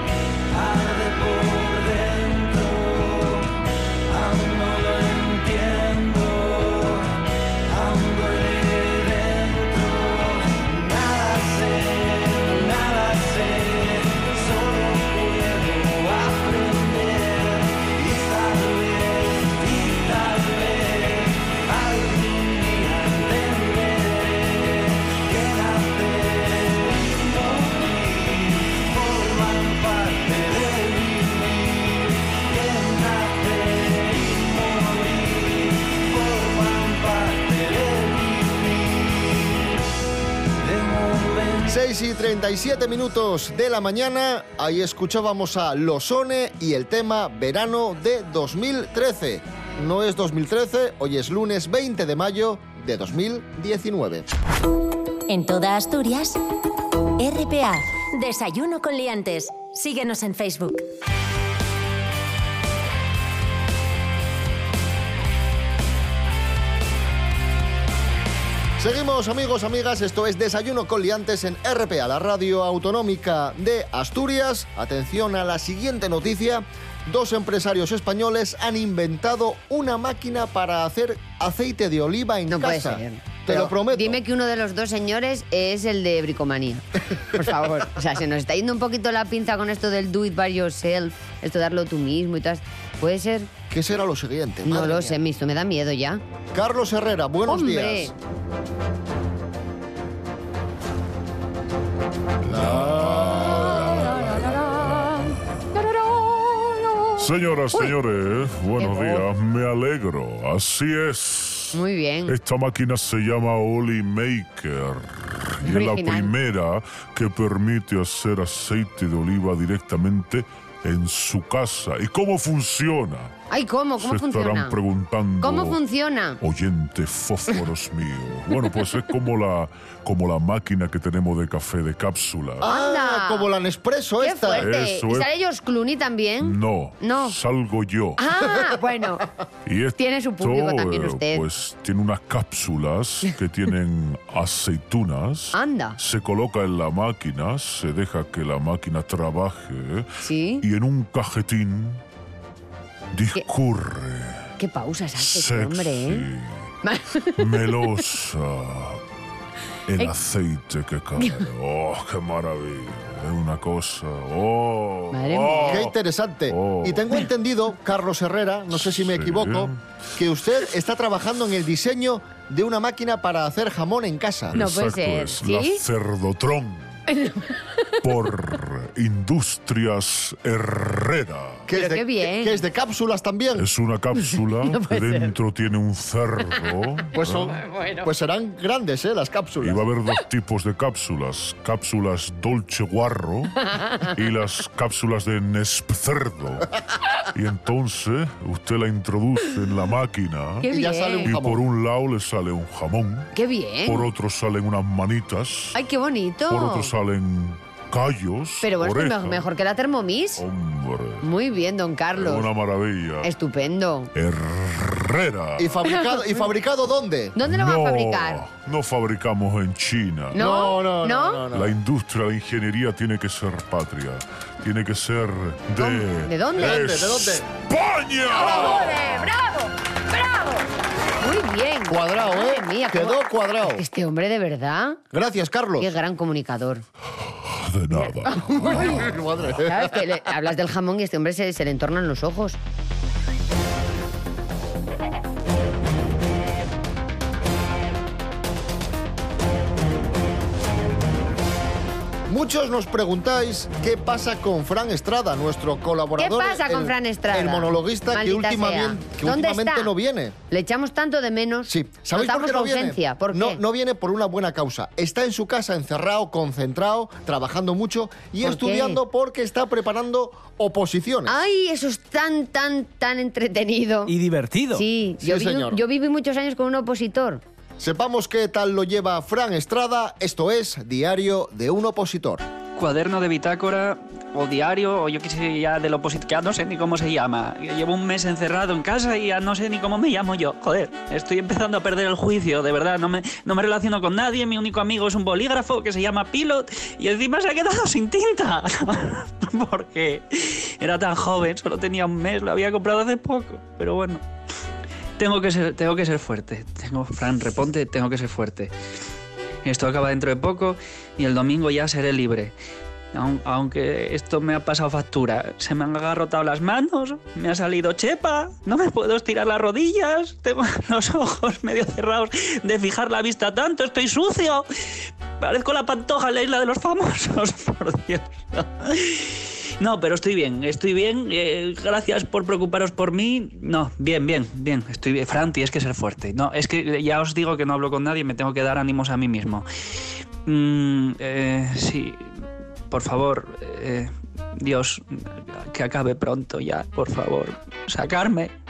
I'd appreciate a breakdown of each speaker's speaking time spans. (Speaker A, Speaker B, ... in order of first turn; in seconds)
Speaker A: 0.5-3.5, 4.1-39.7, 40.6-41.8, 274.2-274.8
Speaker B: 41.7-54.3, 68.8-84.2, 93.7-95.2, 96.5-98.1, 102.5-103.9, 132.6-134.7, 165.7-174.6, 181.7-183.7, 187.2-189.8, 200.7-201.6, 215.6-217.4, 220.3-221.8, 226.6-227.4, 231.9-233.8, 235.1-235.9, 238.7-240.1, 252.3-260.4, 261.7-271.4, 275.2-275.8, 277.8-282.4
Speaker C: 55.3-56.4, 57.2-60.9
Speaker D: 82.5-93.5, 94.7-96.2, 97.5-98.1, 104.5-107.1, 108.8-109.2, 111.7-112.3, 115.6-116.3, 123.5-124.8, 125.4-126.4, 132.6-133.5, 134.2-137.4, 138.2-139.3, 140.0-141.4, 145.5-146.0, 150.2-150.6, 154.6-156.3, 156.8-158.0, 161.2-161.4, 165.1-165.9, 174.5-175.8, 177.1-177.9, 181.7-182.6, 184.2-185.3, 187.6-188.1, 193.8-194.1, 200.6-201.3, 203.3-204.1, 205.7-206.9, 208.6-210.4, 211.2-212.5, 213.2-214.1, 215.9-216.4, 217.4-218.4, 220.3-221.4, 225.8-226.9, 228.3-230.6, 231.2-235.0, 235.8-236.8, 237.9-242.6, 256.2-259.9, 260.5-263.6, 268.4-269.0, 271.3-274.2, 274.7-277.4
Speaker E: 102.5-104.8, 107.2-123.3, 124.0-125.8, 126.4-132.7, 134.5-135.3, 136.4-138.2, 139.7-150.1, 150.6-152.0, 153.1-154.4, 155.2-156.5, 157.4-159.0, 159.9-165.9, 166.5-167.2, 168.8-169.8, 174.5-176.9, 178.0-181.6, 183.6-187.6, 189.6-196.7, 197.3-200.7, 201.2-203.3, 203.8-205.8, 206.5-209.5, 210.4-211.3, 212.2-213.3, 214.2-215.7, 217.4-220.5, 221.5-229.1, 237.5-238.8
Speaker F: 282.8-304.2, 305.2-308.7, 309.6-312.5, 313.1-324.7, 325.4-339.7, 340.5-342.3, 342.9-348.5